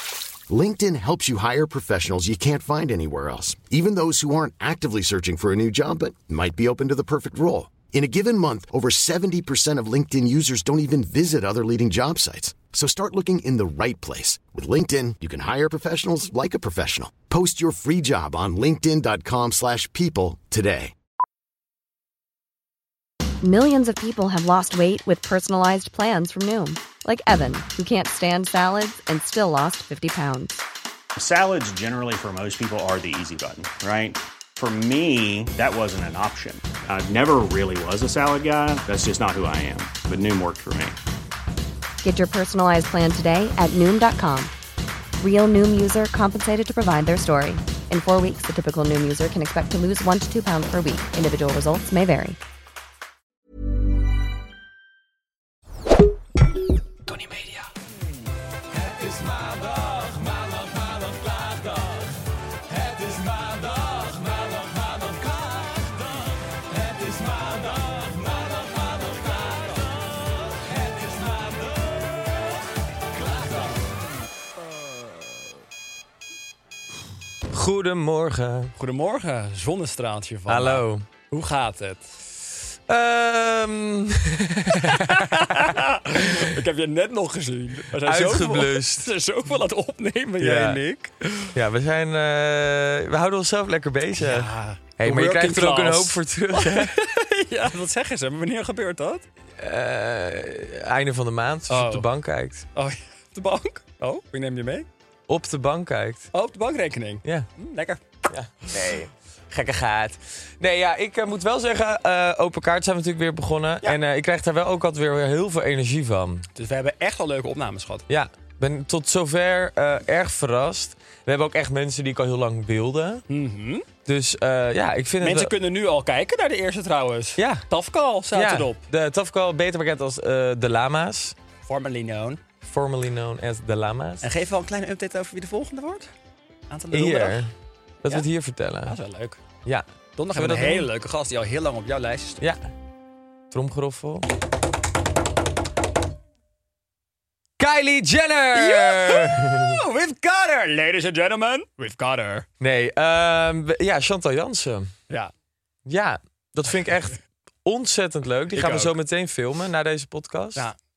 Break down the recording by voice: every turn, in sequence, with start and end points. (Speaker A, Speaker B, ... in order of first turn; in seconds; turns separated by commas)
Speaker A: 0.5-20.9, Speaker B: 23.4-30.6, Speaker C: 31.2-41.0, Speaker B: 42.0-44.5, Speaker B: 45.2-52.4, Speaker D: 58.9-60.3, Speaker D: 60.9-61.8, Speaker D: 62.8-65.9, Speaker D: 66.9-68.3, Speaker D: 77.5-78.7, Speaker E: 78.8-82.2, Speaker D: 80.5-81.1, Speaker D: 82.9-85.7, Speaker E: 84.7-91.5, Speaker D: 88.0-89.1, Speaker D: 90.4-90.8, Speaker D: 91.5-97.0, Speaker E: 94.2-99.3, Speaker D: 99.6-102.7, Speaker E: 101.7-102.1, Speaker E: 102.8-104.9, Speaker D: 105.3-106.3, Speaker E: 106.3-108.0, Speaker D: 108.3-116.5, Speaker E: 116.6-118.0, Speaker D: 118.1-123.2, Speaker E: 123.3-123.9, Speaker D: 124.1-125.5, Speaker E: 125.2-128.8, Speaker D: 127.4-127.7, Speaker D: 128.3-131.3, Speaker E: 131.7-132.4, Speaker D: 132.6-134.3, Speaker E: 134.2-136.1, Speaker E: 136.7-137.4, Speaker D: 136.9-137.5, Speaker D: 138.0-139.0, Speaker E: 138.9-139.4, Speaker D: 139.7-140.9, Speaker E: 140.2-142.4, Speaker D: 143.5-144.3, Speaker D: 147.6-149.8, Speaker E: 148.5-152.5, Speaker D: 152.6-154.9, Speaker D: 155.9-160.7, Speaker E: 158.5-158.9